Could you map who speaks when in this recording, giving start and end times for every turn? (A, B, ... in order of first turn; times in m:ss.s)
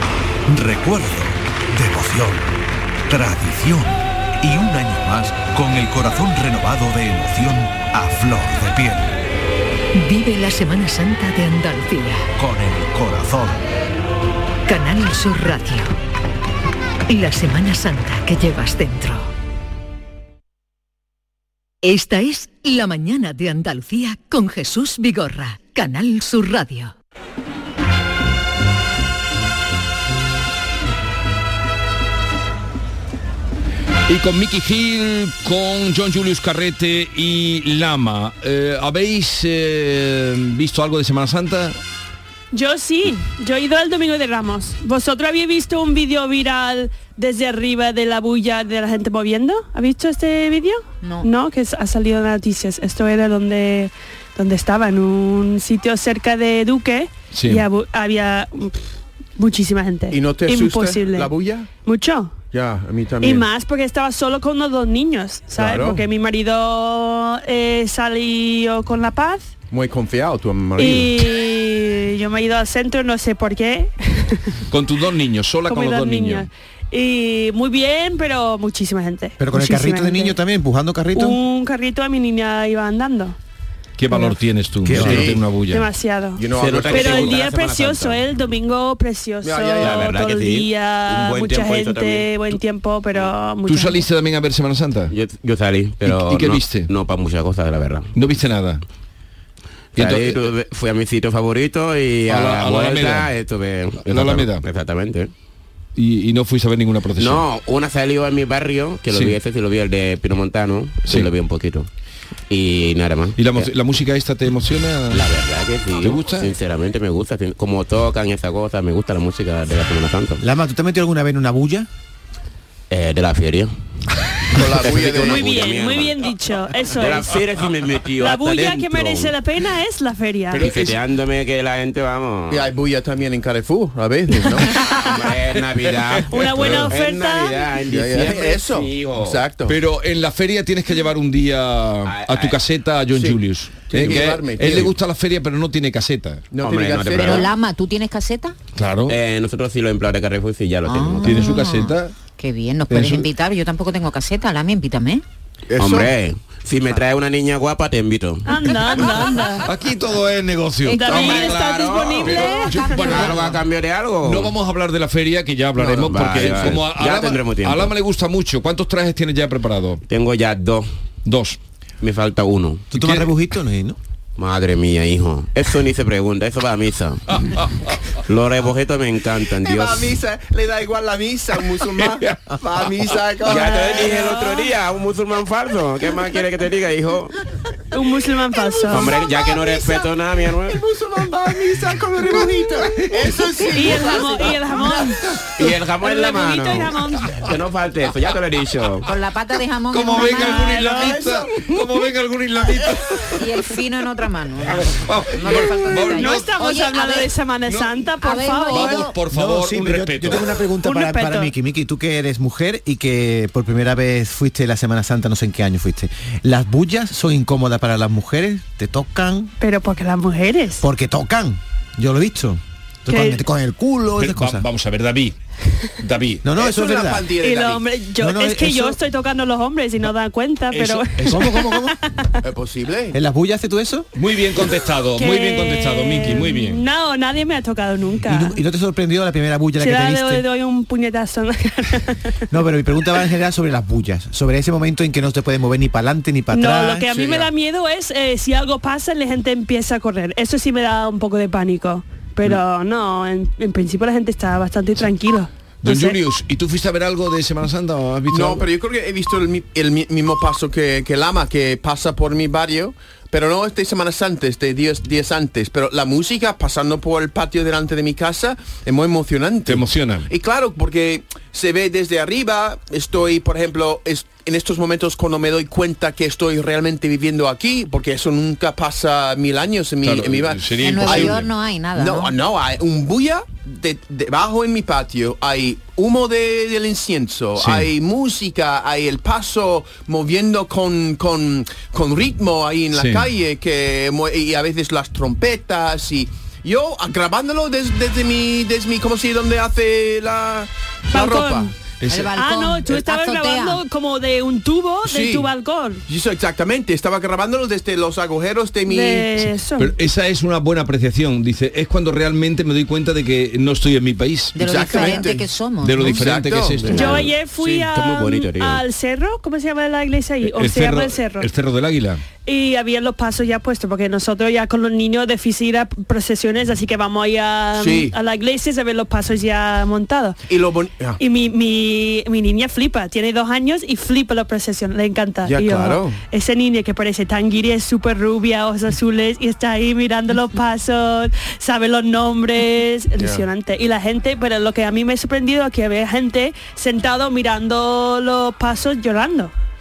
0:00.5-0:02.6 A
0:03.1-0:09.2 A
0:10.0-0:12.3 B
0:12.4-0:13.7 A
0:14.7-0:16.0 B
0:17.1-0:19.3 B
0:21.8-0:26.9 B
0:34.1-0:41.8 C
0:42.5-0:58.9 D
0:51.0-0:51.3 E
0:57.3-0:57.7 C
0:59.4-1:01.3 D
1:00.1-1:01.7 F
1:01.8-1:02.4 D
1:02.5-1:03.5 F
1:03.2-1:09.5 D
1:05.5-1:06.0 F
1:09.7-1:11.3 F
1:10.8-1:14.6 D
1:14.7-1:16.5 C
1:15.7-1:20.4 D
1:19.4-1:21.4 G
1:21.2-1:23.4 D
1:24.0-1:25.9 C
1:24.8-1:25.3 G
1:24.9-1:25.4 F
1:25.6-1:34.1 D
1:26.4-1:27.4 F
1:26.5-1:28.2 H
1:29.4-1:30.1 F
1:29.8-1:32.6 H
1:33.6-1:35.1 C
1:35.1-1:38.1 H
1:36.0-1:36.9 C
1:38.2-1:38.8 C
1:40.0-1:40.4 C
1:40.0-1:45.3 H
1:42.3-1:43.3 C
1:44.1-1:44.6 C
1:46.0-1:47.4 C
1:47.2-1:51.9 H
1:49.1-1:49.4 C
1:52.5-1:53.7 H
1:53.4-1:55.2 C
1:55.1-2:00.4 H
1:56.0-1:56.5 C
2:00.4-2:01.9 G
2:02.9-2:03.7 H
2:04.5-2:05.5 F
2:04.6-2:06.3 H
2:05.2-2:07.4 D
2:06.9-2:09.4 H
2:08.2-2:10.7 D
2:10.5-2:11.0 C
2:10.6-2:12.7 H
2:12.5-2:14.7 F
2:14.5-2:15.3 D
2:14.7-2:19.5 H
2:16.2-2:16.8 C
2:16.3-2:17.7 D
2:17.9-2:19.8 F
2:19.7-2:26.4 C
2:22.1-2:22.6 H
2:23.1-2:25.0 F
2:26.5-2:27.5 F
2:26.6-2:27.5 H
2:27.2-2:28.6 E
2:28.8-2:29.2 C
2:29.1-2:31.6 H
2:30.9-2:35.2 E
2:31.2-2:32.1 C
2:32.9-2:33.3 C
2:35.7-2:36.1 F
2:35.8-2:39.1 H
2:38.4-2:39.7 D
2:39.6-2:43.6 C
2:40.8-2:43.3 D
2:40.9-2:44.5 H
2:42.7-2:43.4 E
2:44.2-2:50.0 C
2:45.8-2:46.7 F
2:46.1-2:47.9 H
2:50.1-2:50.9 H
2:51.3-2:51.6 C
2:52.0-2:52.8 H
2:52.9-2:54.0 G
2:53.0-2:53.3 C
2:54.4-2:57.6 H
2:57.4-2:58.0 C
2:58.2-3:00.2 H
2:59.6-3:04.3 F
3:01.8-3:02.4 H
3:03.4-3:07.4 H
3:03.9-3:04.7 D
3:07.9-3:09.2 D
3:08.5-3:10.1 F
3:08.9-3:10.8 H
3:10.7-3:14.7 F
3:13.7-3:15.2 D
3:15.6-3:19.1 H
3:16.0-3:17.4 D
3:19.1-3:21.2 E
3:19.9-3:23.4 C
3:20.3-3:21.2 D
3:21.0-3:21.7 F
3:23.3-3:27.3 E
3:24.7-3:26.5 C
3:25.9-3:29.2 D
3:27.7-3:28.0 C
3:28.2-3:29.2 E
3:28.7-3:30.6 C
3:29.3-3:39.5 G
3:30.8-3:31.5 D
3:39.6-3:40.8 D
3:40.8-3:44.6 G
3:43.1-3:43.4 D
3:44.2-3:45.4 C
3:46.0-3:46.5 C
3:46.4-3:47.3 G
3:46.5-3:47.9 F
3:47.4-3:52.4 D
3:48.2-3:49.0 G
3:50.7-3:51.5 C
3:51.2-3:52.0 G
3:52.4-3:53.2 F
3:53.1-3:54.1 G
3:54.2-3:56.8 C
3:55.1-3:58.6 D
3:58.2-4:00.4 G
3:59.8-4:02.3 D
4:02.5-4:07.1 G
4:06.5-4:16.2 D
4:07.1-4:07.5 F
4:15.8-4:18.7 C
4:18.3-4:41.4 F
4:29.7-4:30.3 C
4:40.0-4:41.5 C
4:40.8-4:42.3 E
4:41.9-5:01.7 F
4:47.6-4:47.9 C
4:52.9-4:53.3 C
5:01.1-5:01.7 D
5:02.0-5:02.4 C
5:02.1-5:03.8 E
5:02.4-5:06.0 D
5:05.0-5:05.5 F
5:06.1-5:09.3 F
5:08.9-5:09.9 D
5:09.8-5:15.2 C
5:14.6-5:16.3 E
5:14.6-5:17.8 F
5:15.8-5:17.3 C
5:16.8-5:18.8 H
5:16.9-5:21.5 D
5:20.4-5:22.2 C
5:22.4-5:30.4 D
5:27.8-5:28.2 F
5:30.5-5:31.2 F
5:31.2-5:49.5 D
5:35.4-5:36.2 F
5:43.2-5:43.5 F